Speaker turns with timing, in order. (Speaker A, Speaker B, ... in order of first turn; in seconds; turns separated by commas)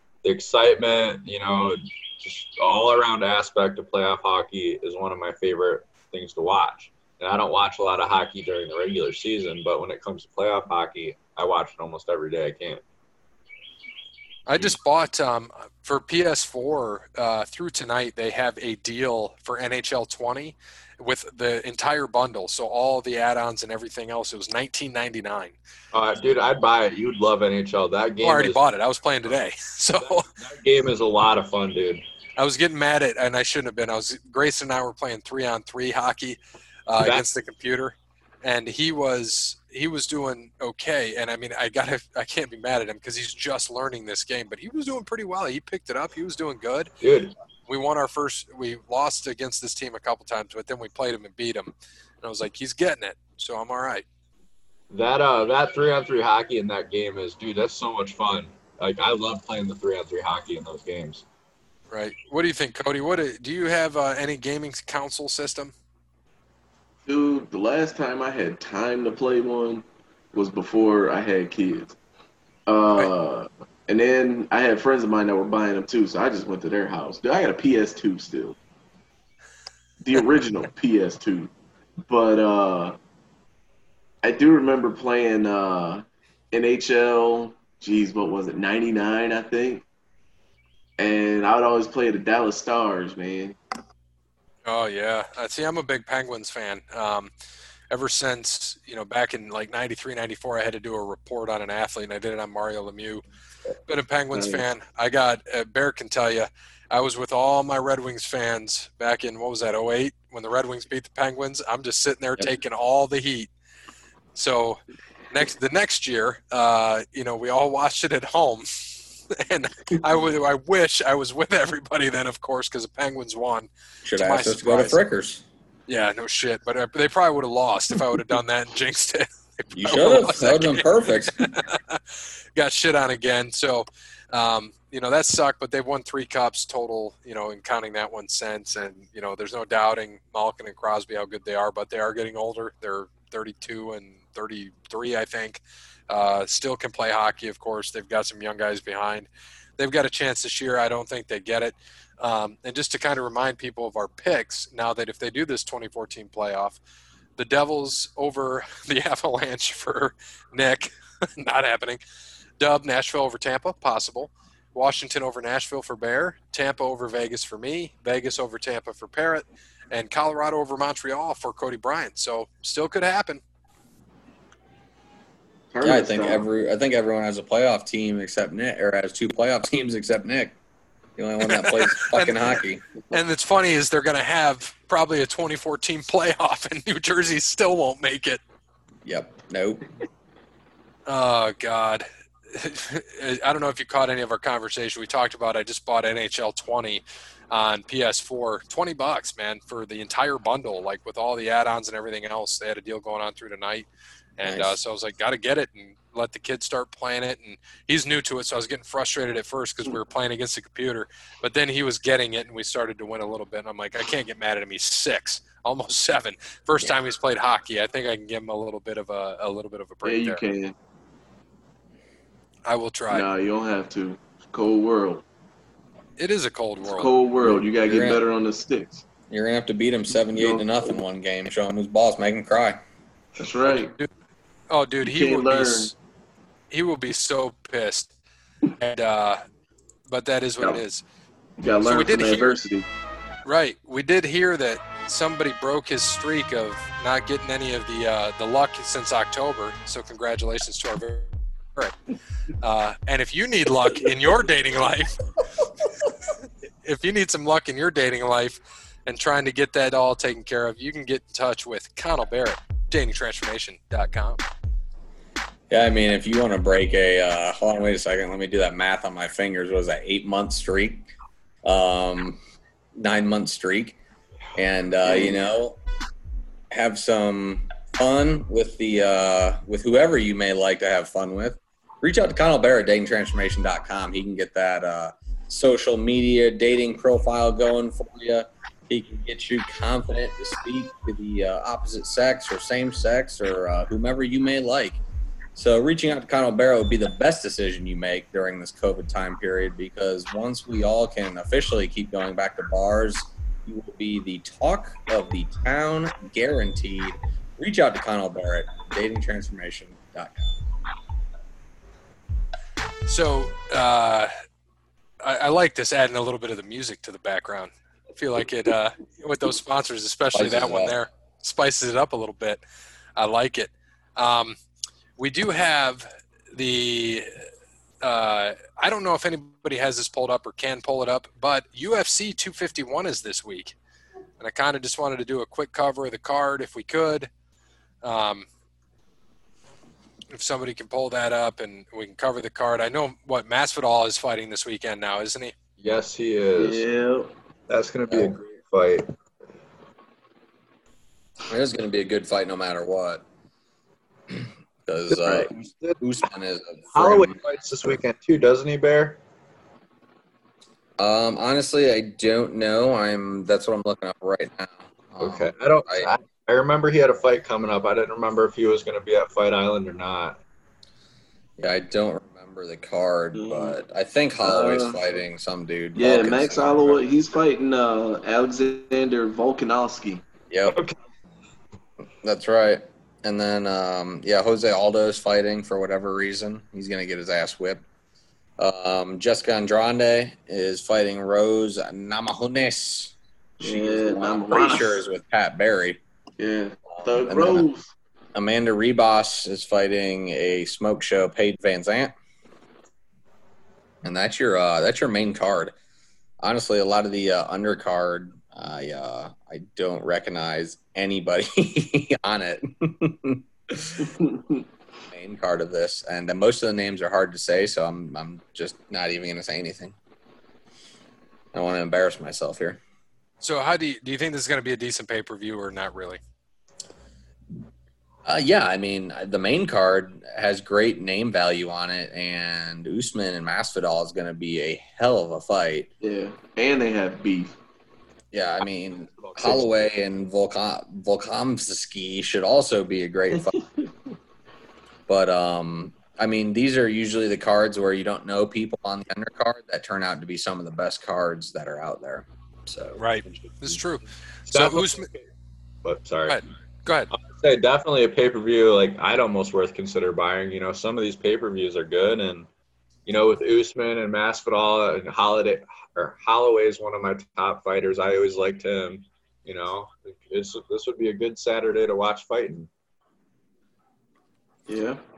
Speaker A: 0.2-12.8, Speaker B: 14.5-25.6, Speaker A: 25.9-28.6, Speaker B: 28.2-30.3, Speaker A: 30.0-32.0, Speaker B: 32.4-46.9, Speaker A: 47.0-47.3, Speaker B: 47.7-54.0, Speaker A: 54.9-61.2, Speaker B: 61.9-65.7, Speaker C: 67.0-72.0, Speaker C: 72.7-78.5, Speaker C: 80.0-81.5, Speaker C: 82.1-83.0, Speaker C: 84.2-89.8, Speaker C: 91.0-93.6, Speaker B: 94.6-97.3, Speaker B: 97.9-103.2, Speaker B: 103.9-113.5, Speaker C: 104.3-104.6, Speaker B: 114.3-114.8, Speaker B: 115.3-125.0, Speaker D: 124.0-125.4, Speaker B: 125.9-132.0, Speaker D: 129.7-131.5, Speaker B: 132.6-156.8, Speaker B: 157.4-162.0, Speaker B: 162.6-173.4, Speaker C: 175.7-176.4, Speaker D: 175.8-180.6, Speaker D: 181.2-182.8, Speaker B: 181.4-182.4, Speaker B: 183.1-188.4, Speaker D: 189.0-189.8, Speaker B: 191.1-203.9, Speaker B: 204.4-220.4, Speaker D: 204.4-204.8, Speaker C: 220.0-220.7, Speaker B: 222.7-223.3, Speaker C: 223.1-225.2, Speaker B: 226.2-227.1, Speaker C: 226.8-229.0, Speaker D: 227.8-228.2, Speaker D: 229.3-232.8, Speaker C: 230.3-230.7, Speaker C: 233.4-233.9, Speaker B: 234.7-235.9, Speaker C: 235.0-235.9, Speaker B: 236.7-238.1, Speaker B: 238.8-239.4, Speaker B: 240.1-241.0, Speaker C: 241.6-242.9, Speaker B: 241.8-242.6, Speaker B: 243.4-251.9, Speaker B: 252.6-255.2, Speaker B: 256.8-264.4, Speaker D: 265.7-271.0, Speaker D: 271.6-272.4, Speaker D: 272.9-274.0, Speaker D: 274.5-275.8, Speaker C: 275.0-275.4, Speaker D: 276.7-295.0, Speaker D: 295.5-310.5, Speaker B: 313.1-314.3, Speaker B: 315.2-322.6, Speaker D: 320.3-320.9, Speaker B: 323.2-324.6, Speaker B: 325.2-327.3, Speaker B: 328.0-333.7, Speaker B: 334.4-337.3, Speaker B: 338.0-338.4, Speaker B: 340.3-345.5, Speaker A: 345.8-346.8, Speaker C: 346.6-347.3, Speaker A: 347.7-349.1, Speaker D: 348.1-348.4, Speaker D: 351.4-353.2, Speaker D: 354.9-357.9, Speaker A: 355.1-356.0, Speaker A: 356.9-359.2, Speaker D: 361.0-366.1, Speaker A: 365.2-370.4, Speaker D: 371.6-377.0, Speaker C: 373.3-373.8, Speaker C: 374.4-375.0, Speaker C: 375.9-380.2, Speaker D: 380.5-380.8, Speaker A: 380.7-380.9, Speaker D: 382.2-387.8, Speaker D: 388.6-396.0, Speaker C: 393.6-395.0, Speaker C: 396.4-397.9, Speaker D: 397.0-397.7, Speaker D: 398.3-402.1, Speaker D: 404.0-405.7, Speaker D: 406.4-414.1, Speaker C: 414.0-414.6, Speaker D: 415.1-419.9, Speaker D: 421.5-422.8, Speaker B: 423.4-426.2, Speaker D: 428.2-435.9, Speaker C: 436.0-437.6, Speaker D: 438.3-443.5, Speaker A: 439.2-439.6, Speaker C: 443.4-443.9, Speaker D: 445.1-453.6, Speaker B: 453.0-455.1, Speaker A: 454.5-455.3, Speaker A: 455.8-456.4, Speaker B: 456.3-457.1, Speaker A: 457.1-462.5, Speaker A: 463.1-472.7, Speaker C: 474.7-475.0